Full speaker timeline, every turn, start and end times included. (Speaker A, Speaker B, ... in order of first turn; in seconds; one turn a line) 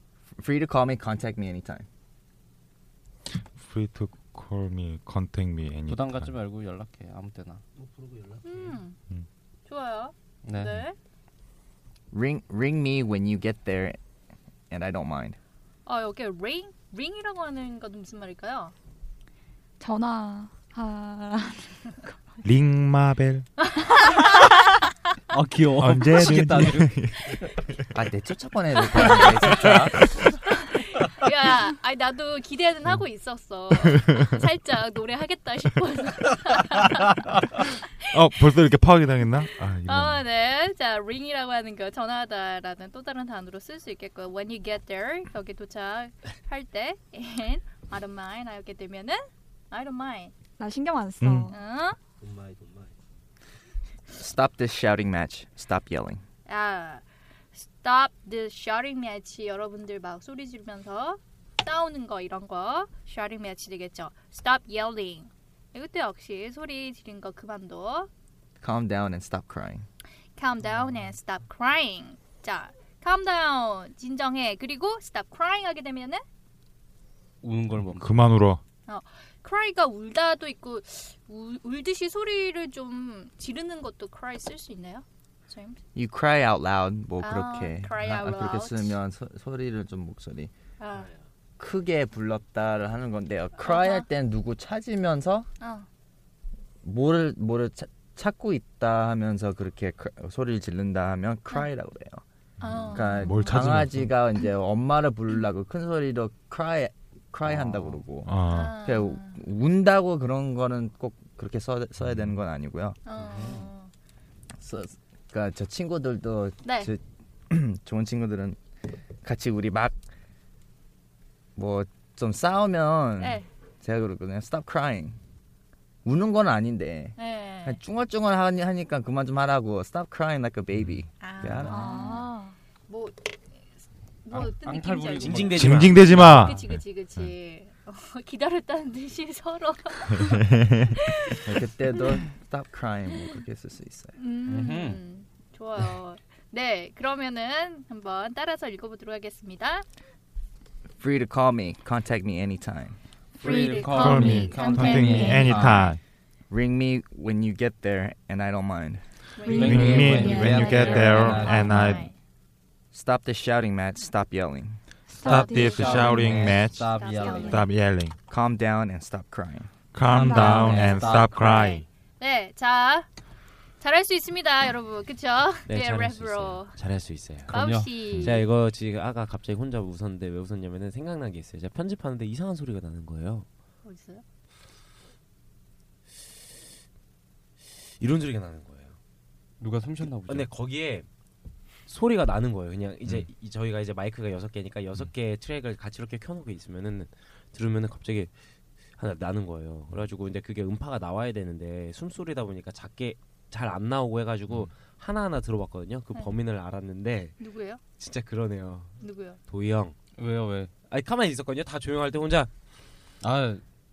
Speaker A: 0.4-1.9
Speaker B: 3.3-6.3
Speaker C: 5.9-7.6
Speaker D: 7.8-8.7
Speaker E: 8.4-9.0
Speaker E: 9.7-11.0
Speaker C: 10.4-10.8
Speaker A: 12.1-14.0
Speaker A: 14.7-15.4
Speaker E: 15.8-18.7
Speaker F: 19.8-22.1
Speaker B: 22.4-23.5
Speaker E: 23.8-24.5
Speaker F: 24.0-24.4
Speaker C: 25.3-26.9
Speaker B: 25.8-27.3
Speaker A: 27.9-30.0
Speaker E: 29.0-29.8
Speaker E: 30.5-37.8
Speaker B: 38.1-40.2
Speaker E: 39.9-50.3
Speaker F: 50.6-51.5
Speaker B: 51.2-51.5
Speaker E: 51.5-52.0
Speaker D: 52.2-52.9
Speaker A: 54.1-56.2
Speaker E: 56.5-68.1
Speaker A: 68.6-69.9
Speaker E: 70.4-76.2
Speaker C: 77.4-78.2
Speaker B: 77.9-78.6
Speaker E: 78.9-85.8
Speaker A: 86.0-90.5
Speaker E: 87.2-89.0
Speaker E: 90.8-91.1
Speaker A: 91.6-95.5
Speaker E: 93.6-94.1
Speaker E: 95.6-95.9
Speaker A: 96.8-102.2
Speaker E: 102.6-103.6
Speaker B: 102.6-104.2
Speaker A: 102.9-113.0
Speaker B: 108.2-108.8
Speaker E: 108.5-109.4
Speaker E: 113.1-113.9
Speaker C: 113.2-113.7
Speaker A: 114.6-118.6
Speaker E: 116.6-116.9
Speaker A: 119.2-120.0
Speaker A: 121.6-125.2
Speaker E: 123.2-123.5
Speaker A: 126.0-131.9
Speaker E: 127.2-127.8
Speaker E: 131.2-132.3
Speaker F: 131.7-132.6
Speaker E: 132.9-133.3
Speaker E: 134.2-140.4
Speaker C: 134.3-136.5
Speaker D: 135.2-136.5
Speaker B: 135.5-136.8
Speaker A: 141.4-144.2
Speaker E: 144.2-149.9
Speaker C: 144.5-145.0
Speaker A: 151.0-153.0
Speaker E: 153.4-155.9
Speaker C: 153.4-155.7
Speaker B: 153.9-156.0
Speaker F: 154.8-155.6
Speaker A: 155.3-155.9
Speaker A: 156.5-159.0
Speaker E: 159.4-162.2
Speaker C: 159.5-162.0
Speaker F: 159.5-159.8
Speaker B: 159.5-162.1
Speaker A: 162.9-164.8
Speaker F: 165.1-165.9
Speaker B: 165.2-168.2
Speaker E: 165.2-167.7
Speaker C: 165.3-167.7
Speaker A: 168.3-169.7
Speaker B: 169.9-171.8
Speaker C: 170.1-171.8
Speaker F: 170.1-171.0
Speaker E: 172.2-173.1
Speaker E: 173.8-176.7
Speaker D: 175.7-183.5
Speaker E: 177.5-178.4
Speaker C: 177.5-178.4
Speaker E: 183.8-184.2
Speaker D: 188.0-188.9
Speaker C: 189.6-190.5
Speaker D: 190.2-191.1
Speaker D: 191.9-198.3
Speaker D: 199.0-207.4
Speaker E: 207.4-207.8
Speaker D: 208.0-209.9
Speaker E: 209.0-209.4
Speaker C: 210.2-210.7
Speaker D: 210.9-212.5
Speaker C: 213.2-213.6